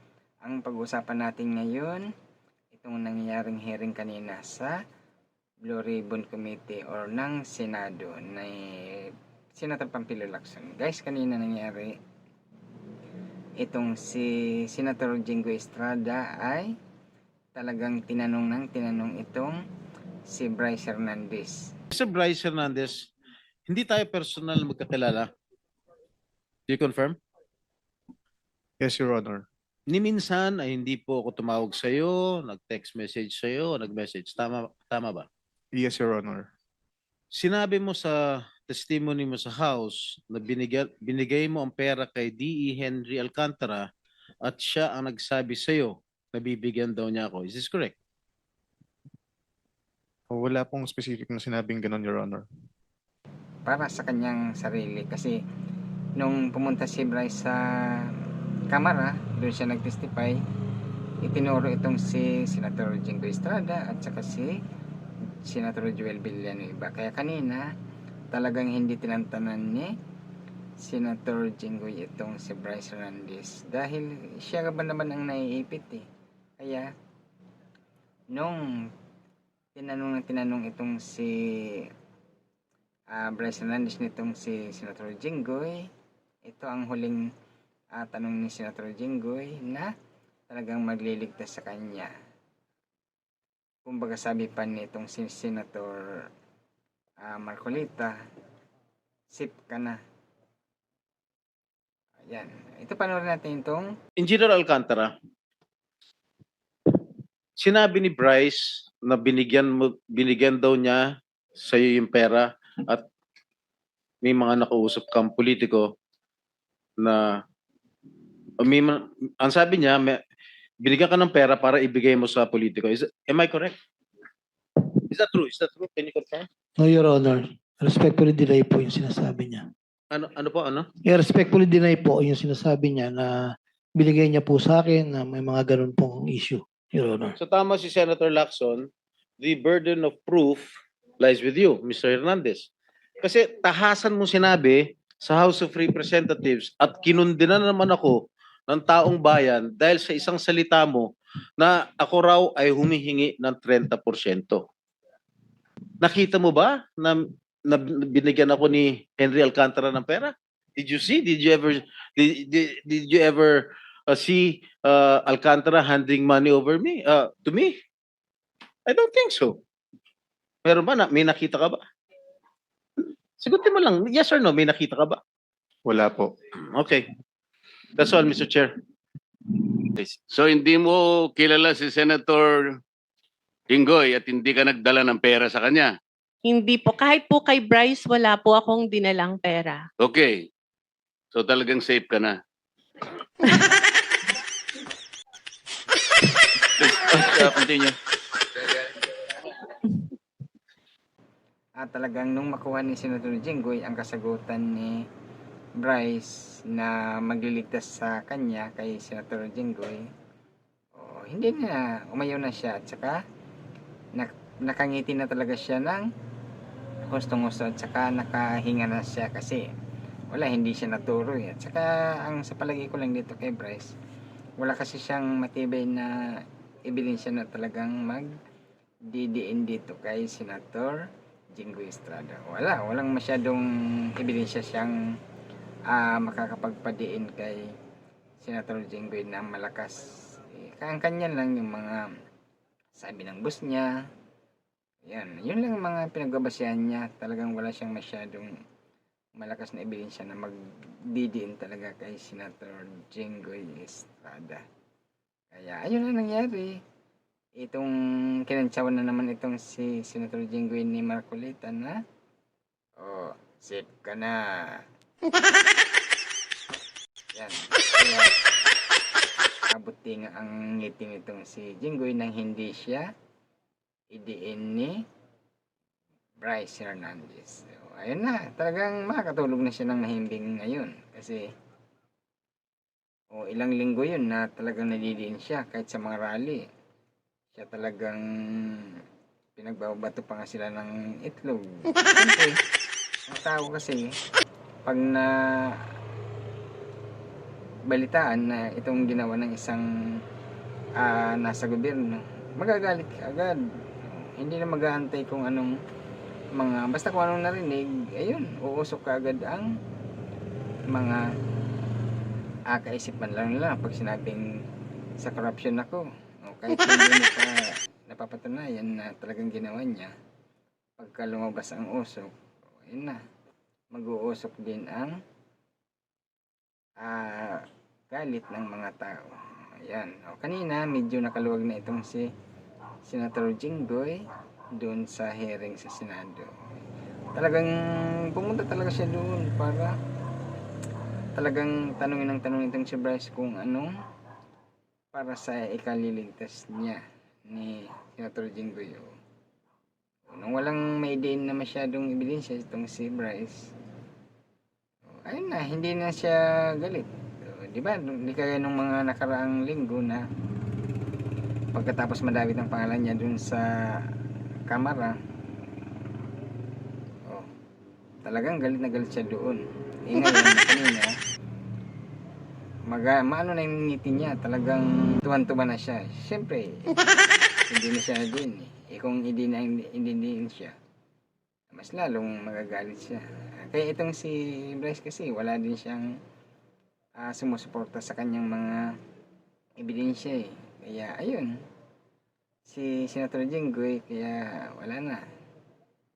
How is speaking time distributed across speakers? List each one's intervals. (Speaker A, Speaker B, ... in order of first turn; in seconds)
Speaker A: 0.4-2.0, 2.7-4.8, 5.6-11.9, 13.6-16.7, 17.6-19.6, 20.3-21.6, 53.6-55.4, 56.2-57.6, 58.7-60.4, 61.2-64.5, 65.4-67.7, 68.3-69.9, 70.8-76.0, 76.6-76.9, 78.3-78.6, 79.7-81.9, 83.1-85.9, 86.5-87.2, 88.0-89.9, 90.5-92.1, 93.8-96.0, 97.2-98.1, 99.3-100.0, 102.3-103.9, 201.8-205.0, 205.8-210.0, 210.9-213.2, 214.1-216.1, 217.1-219.6, 220.3-223.9, 224.6-226.1, 226.9-228.3, 229.1-231.0, 231.5-234.9, 235.9-237.6, 238.4-242.1, 242.9-243.9, 245.1-248.5, 249.4-250.6, 251.1-254.6, 255.5-256.7, 257.6-257.9, 258.5-262.0, 263.0-264.8, 267.3-268.3, 269.7-273.1, 274.1-274.9, 276.4-281.4, 283.3-286.6, 287.5-288.9, 289.6-292.5, 293.3-294.1, 294.9-295.3, 297.9-299.9, 301.0-305.7, 306.6-309.7, 310.9-311.2, 312.7-314.4, 315.2-317.5, 318.1-320.1, 321.0-322.3, 322.9-323.2, 323.9-325.1, 327.0-332.3, 333.1-334.2, 334.8-336.5, 337.3-337.7, 338.3-339.9, 341.4-343.9, 345.1-349.1, 350.3-353.7, 355.2-360.2, 361.7-363.7, 364.7-365.2, 368.2-371.1, 372.9-377.0, 377.7-380.7, 381.7-386.1, 387.2-388.9, 389.8-391.5, 392.6-395.2
Speaker B: 21.9-23.1, 23.7-25.3, 26.7-27.1, 29.9-35.2, 37.3-43.8, 44.5-47.9, 104.2-105.1, 107.6-113.0, 114.2-115.9, 117.0-117.4, 118.6-120.2, 120.8-123.7, 124.8-126.5, 130.1-130.9, 137.4-138.9, 139.4-140.7, 141.2-142.7, 143.2-154.6, 156.0-167.7, 168.9-169.6, 170.6-171.8, 173.4-175.2, 176.6-177.1, 178.0-178.7
Speaker C: 28.8-29.4, 35.7-36.5, 50.3-52.4, 175.8-176.3
Speaker D: 126.8-129.6, 131.0-137.3
Speaker E: 180.0-182.7, 183.7-185.9, 190.0-190.4, 191.3-192.3, 196.8-197.9
Speaker F: 186.5-189.8